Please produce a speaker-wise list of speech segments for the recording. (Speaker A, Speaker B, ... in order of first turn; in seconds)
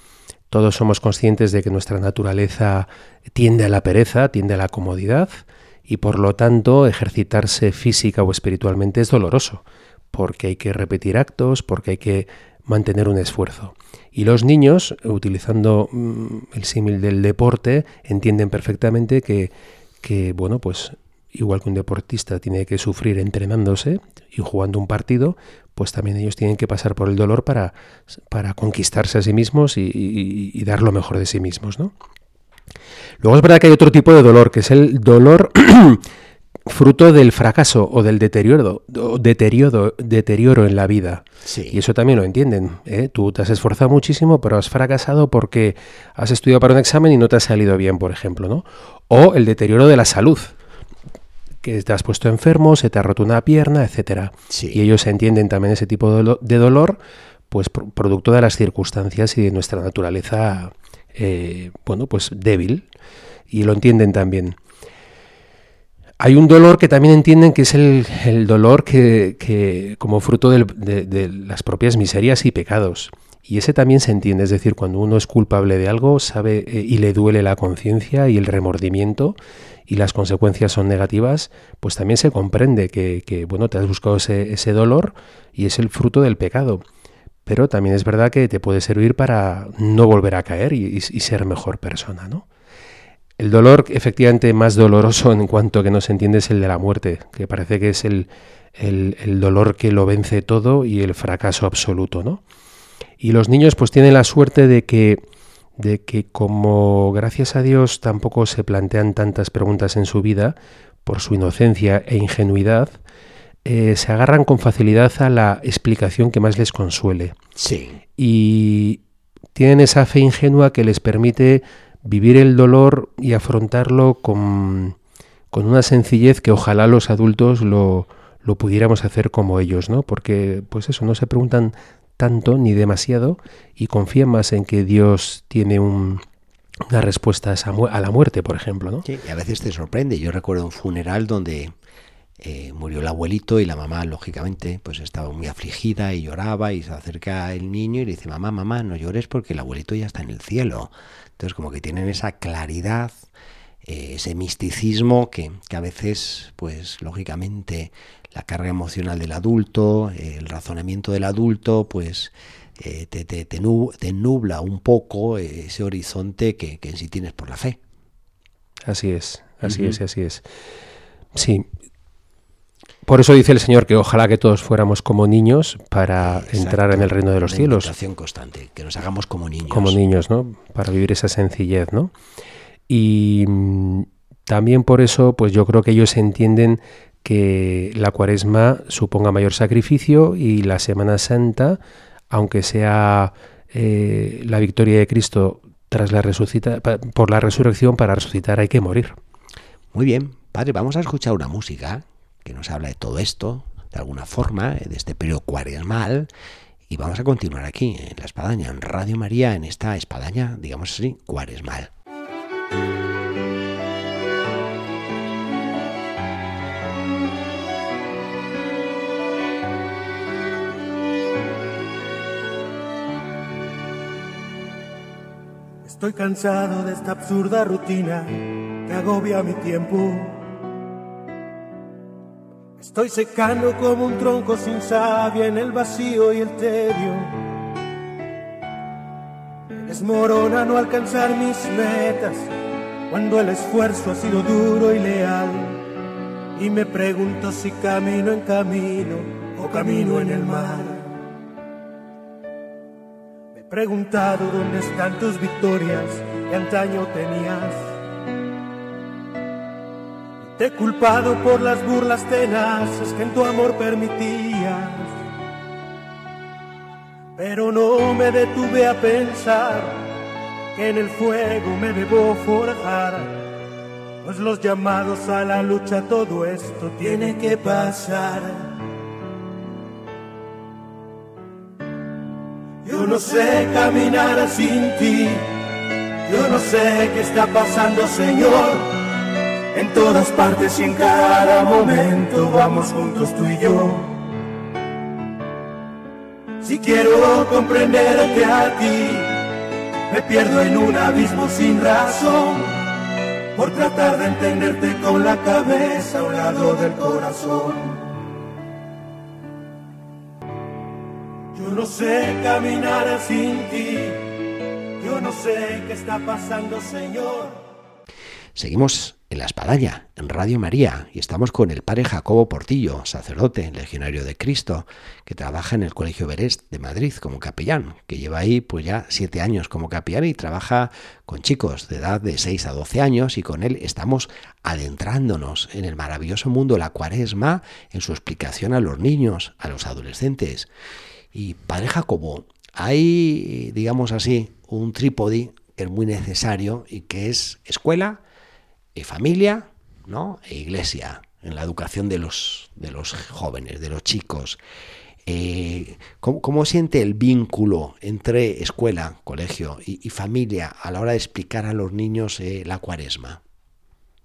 Speaker A: 0.5-27.7, 28.3-31.9, 33.2-36.0, 36.7-50.5, 51.6-57.0, 57.5-62.9, 63.5-64.6, 66.2-79.3, 79.9-86.8, 87.5-92.4, 93.4-102.4, 103.2-105.2, 105.8-112.9, 113.6-117.3, 118.2-119.0, 119.5-125.0, 125.5-136.2, 136.9-139.0, 168.8-170.4, 171.3-171.7, 173.1-177.9, 179.7-182.1, 182.9-191.8, 192.3-199.2
Speaker B: 41.4-41.8, 54.5-54.8, 117.5-118.0, 139.0-141.7, 142.4-153.2, 153.8-167.8, 169.6-170.0, 176.2-180.0, 199.9-206.3, 206.9-211.9, 318.6-340.7, 341.3-348.2, 348.9-354.6, 355.2-363.4
Speaker C: 225.8-230.5, 232.8-237.4, 239.8-242.5, 243.1-245.9, 246.5-251.2, 253.5-257.9, 260.6-265.1, 267.4-270.1, 270.7-273.5, 274.2-278.8, 282.8-285.7, 286.2-294.2, 296.6-302.9, 303.5-308.1, 311.5-317.6